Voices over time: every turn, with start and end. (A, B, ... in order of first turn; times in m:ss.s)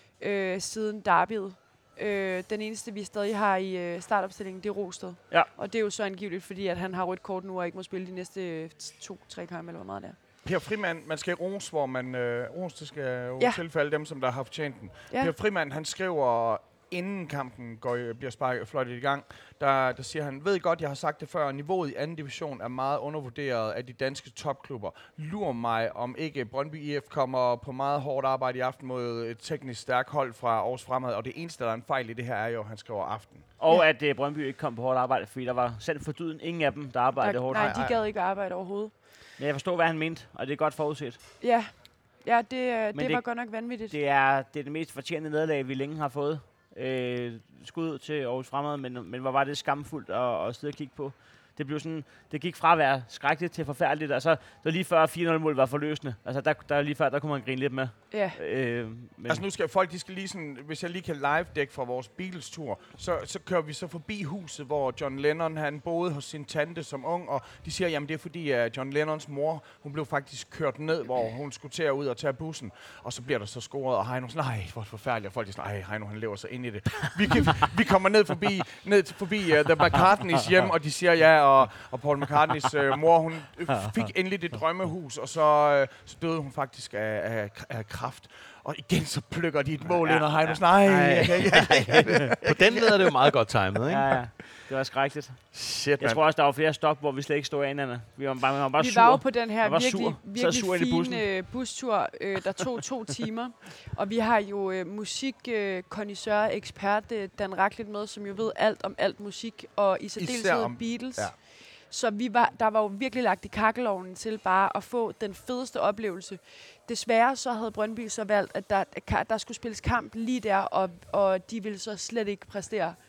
0:00.2-0:10.2 A
0:10.4-0:33.4 B
0:33.6-0:37.8 C
0:37.2-0:38.9 A
0:37.5-0:38.0 B
0:39.4-0:41.2 C
0:41.4-0:43.9 A
0:42.9-0:59.4 C
0:58.1-0:58.4 A
0:59.3-1:33.3 B
1:30.0-1:30.6 C
1:30.8-1:34.2 D
1:31.2-1:32.1 C
1:33.9-1:41.2 C
1:35.5-1:36.2 B
1:38.8-2:03.0 A
1:50.2-1:51.3 B